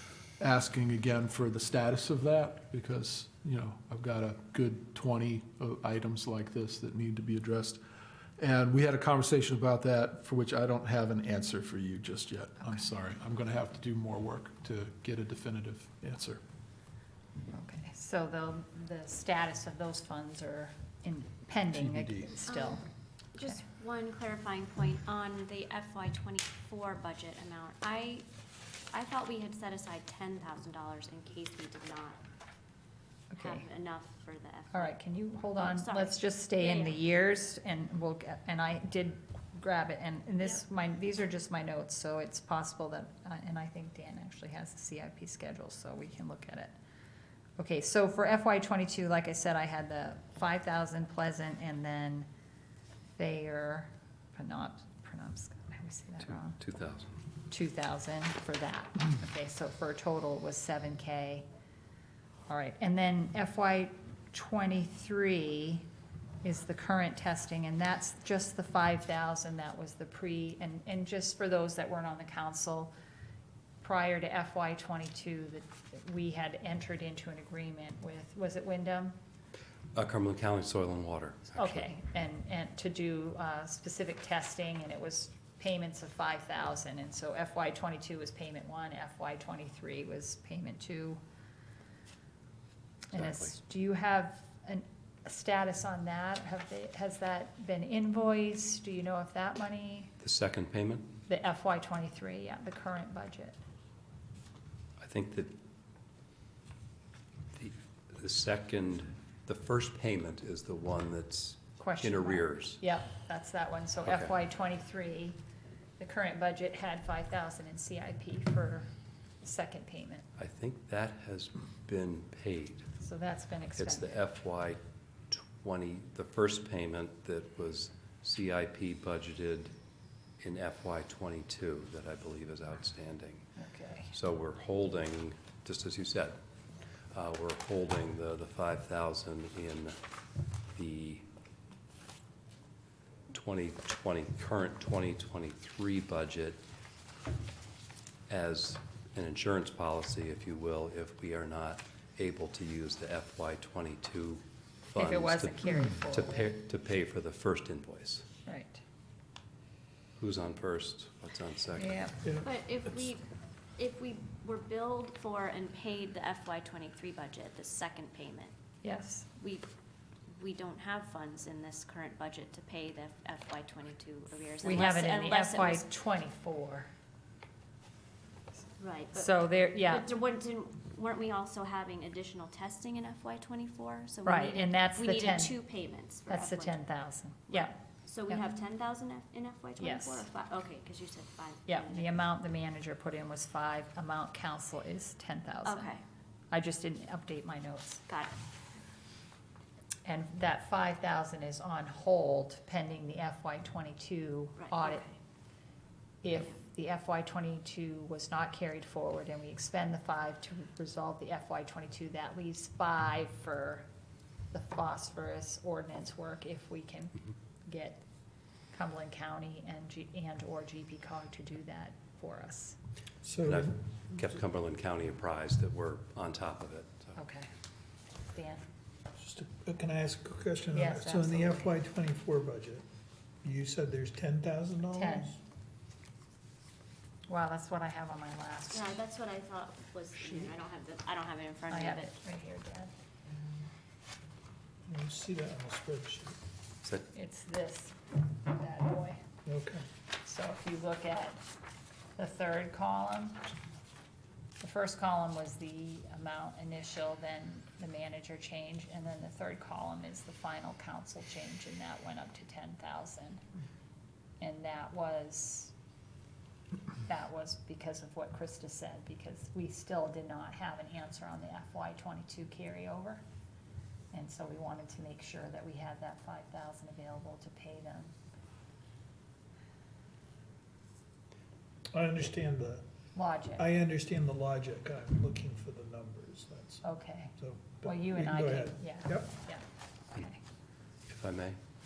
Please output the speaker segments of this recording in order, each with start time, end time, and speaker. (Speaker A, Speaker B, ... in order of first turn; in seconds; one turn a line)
Speaker A: 0.4-7.8
Speaker A: 8.4-16.4
Speaker B: 17.5-22.8
Speaker A: 21.7-22.3
Speaker C: 22.4-28.3
Speaker C: 28.9-32.2
Speaker B: 33.3-33.7
Speaker C: 33.4-35.0
Speaker B: 34.7-46.7
Speaker C: 35.6-37.0
Speaker B: 47.6-52.3
Speaker B: 53.2-56.6
Speaker D: 56.5-57.1
Speaker B: 57.5-61.4
Speaker B: 62.5-65.8
Speaker B: 66.4-72.9
Speaker B: 73.8-79.1
Speaker D: 79.9-81.9
Speaker B: 81.5-91.2
Speaker B: 93.1-100.1
Speaker D: 93.1-93.5
Speaker D: 100.2-101.1
Speaker B: 101.3-103.6
Speaker D: 105.0-105.5
Speaker D: 107.5-112.8
Speaker B: 111.8-115.4
Speaker D: 114.0-114.3
Speaker B: 116.0-118.9
Speaker B: 119.4-120.2
Speaker D: 120.4-122.9
Speaker B: 123.0-124.2
Speaker D: 123.8-124.8
Speaker D: 125.3-129.7
Speaker D: 130.4-133.4
Speaker B: 133.6-134.1
Speaker D: 134.1-136.4
Speaker D: 137.1-140.0
Speaker D: 140.7-141.2
Speaker D: 143.3-146.6
Speaker D: 148.3-158.3
Speaker B: 154.9-156.5
Speaker B: 158.4-158.8
Speaker D: 160.2-162.2
Speaker B: 161.8-162.2
Speaker E: 162.2-162.5
Speaker C: 162.4-163.2
Speaker C: 163.8-168.5
Speaker B: 168.8-169.3
Speaker C: 169.4-169.7
Speaker C: 170.3-175.8
Speaker B: 174.6-176.9
Speaker C: 178.8-186.8
Speaker B: 179.1-180.1
Speaker B: 184.2-185.6
Speaker B: 186.3-187.7
Speaker C: 187.5-192.2
Speaker B: 189.8-190.3
Speaker B: 191.7-195.9
Speaker C: 195.6-196.0
Speaker B: 196.5-198.0
Speaker C: 198.1-198.3
Speaker B: 200.0-205.0
Speaker C: 204.6-205.1
Speaker B: 206.2-213.8
Speaker B: 214.5-218.0
Speaker B: 218.7-222.8
Speaker E: 223.2-223.7
Speaker D: 223.4-227.2
Speaker B: 227.2-227.5
Speaker B: 228.2-228.6
Speaker E: 229.2-232.8
Speaker B: 230.7-231.7
Speaker E: 233.4-235.4
Speaker B: 234.9-235.3
Speaker B: 237.3-239.0
Speaker C: 238.7-242.1
Speaker B: 240.2-240.5
Speaker B: 241.7-242.9
Speaker E: 244.9-246.3
Speaker B: 247.1-249.2
Speaker E: 249.4-249.8
Speaker B: 250.2-251.4
Speaker B: 252.2-253.5
Speaker B: 254.6-263.4
Speaker B: 264.4-265.7
Speaker B: 267.1-273.2
Speaker B: 274.1-278.1
Speaker E: 281.9-282.8
Speaker B: 283.1-283.6
Speaker E: 283.6-286.8
Speaker B: 286.8-290.4
Speaker E: 287.4-289.4
Speaker D: 291.1-291.6